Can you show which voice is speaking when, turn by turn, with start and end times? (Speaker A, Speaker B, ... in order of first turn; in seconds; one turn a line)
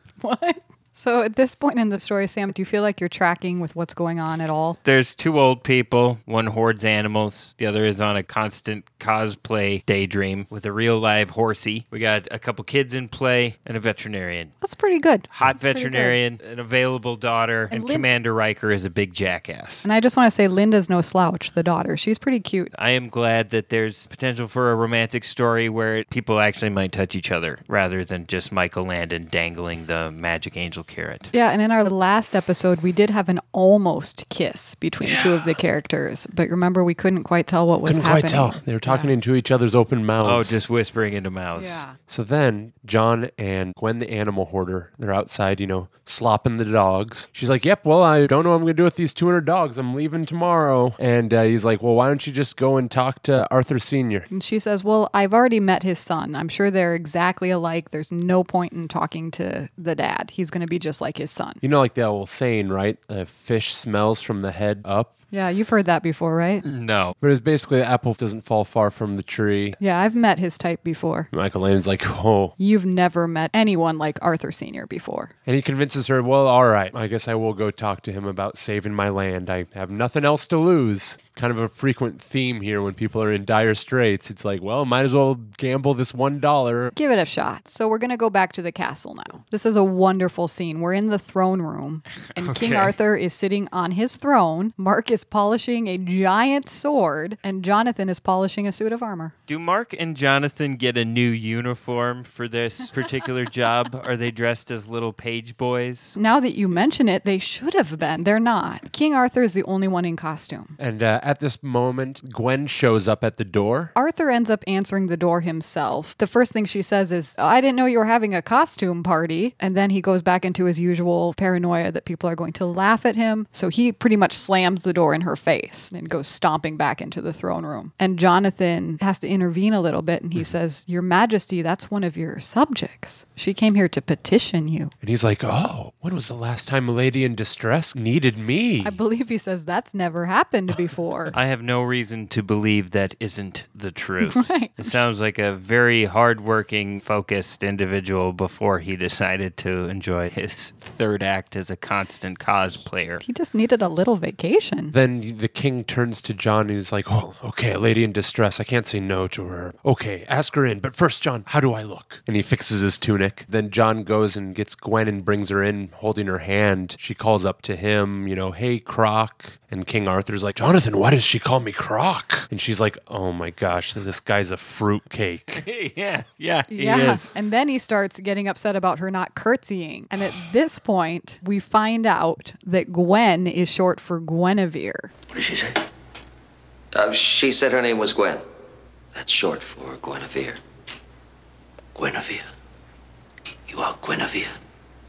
Speaker A: 0.2-4.8
Speaker B: 4.8-14.5
Speaker A: 14.6-16.2
Speaker B: 15.3-19.9
Speaker A: 17.7-18.1
Speaker A: 19.8-22.7
Speaker B: 22.7-31.3
Speaker A: 31.3-39.1
Speaker C: 35.0-35.6
Speaker C: 37.9-40.6
Speaker B: 40.2-41.8
Speaker A: 41.6-42.0
Speaker C: 42.1-54.3
Speaker A: 54.3-61.6
Speaker C: 61.6-65.1
Speaker A: 65.3-66.6
Speaker B: 66.6-67.1
Speaker C: 67.2-69.8
Speaker A: 69.8-71.3
Speaker C: 71.3-72.5
Speaker A: 72.6-75.3
Speaker C: 75.5-86.9
Speaker A: 86.9-99.3
Speaker B: 92.4-92.9
Speaker B: 99.5-106.2
Speaker A: 106.2-110.8
Speaker C: 110.8-113.9
Speaker A: 113.9-134.9
Speaker C: 135.0-139.0
Speaker A: 138.8-141.3
Speaker B: 141.3-153.2
Speaker A: 144.2-144.9
Speaker A: 153.2-154.9
Speaker C: 154.9-175.7
Speaker B: 175.7-177.3
Speaker A: 176.7-185.1
Speaker D: 185.3-185.8
Speaker E: 186.9-188.4
Speaker E: 189.2-190.6
Speaker D: 191.9-192.4
Speaker D: 193.7-194.5